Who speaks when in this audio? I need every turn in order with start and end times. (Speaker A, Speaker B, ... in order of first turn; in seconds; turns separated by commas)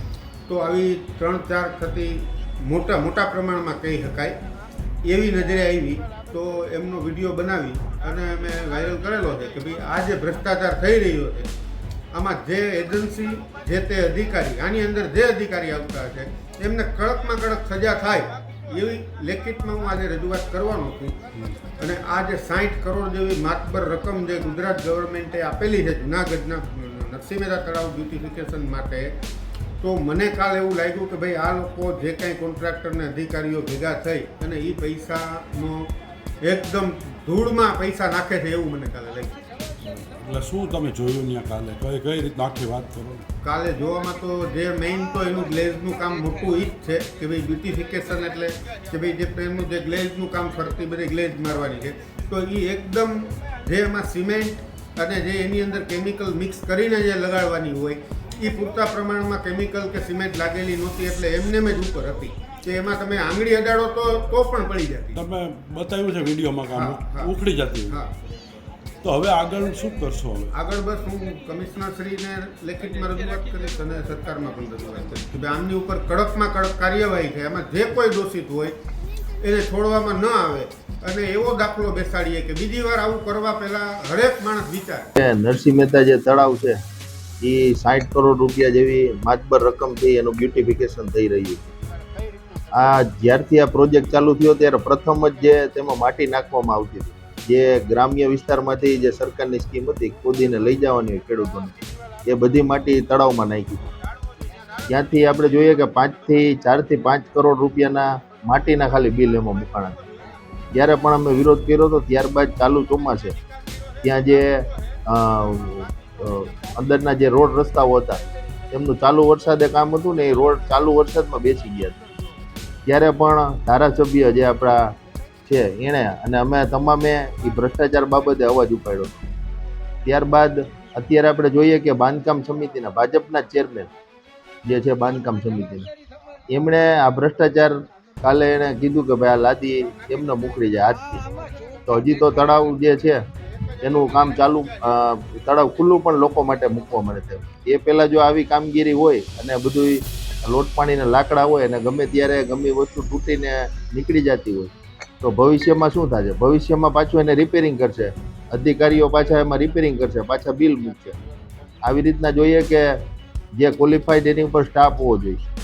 Speaker A: 0.5-4.4, Speaker A: 5.0-11.5, Speaker A: 12.1-21.3, Speaker A: 21.8-29.2, Speaker A: 29.8-35.9, Speaker A: 36.4-39.4, Speaker B: 39.8-43.2, Speaker A: 43.4-65.2, Speaker B: 65.2-68.0, Speaker A: 66.8-67.3, Speaker A: 67.9-68.1, Speaker B: 69.0-70.5, Speaker A: 70.5-78.7, Speaker A: 79.4-85.1, Speaker C: 85.2-86.8, Speaker C: 87.4-91.7, Speaker C: 92.7-103.9, Speaker C: 104.9-110.0, Speaker C: 110.7-113.4, Speaker C: 114.0-122.0, Speaker C: 122.9-124.9, Speaker C: 125.5-129.1, Speaker C: 130.1-133.9, Speaker C: 134.7-135.9, Speaker C: 136.5-141.2, Speaker C: 141.9-143.2, Speaker C: 143.8-154.7, Speaker C: 155.2-161.2, Speaker C: 161.8-163.0, Speaker C: 163.6-165.4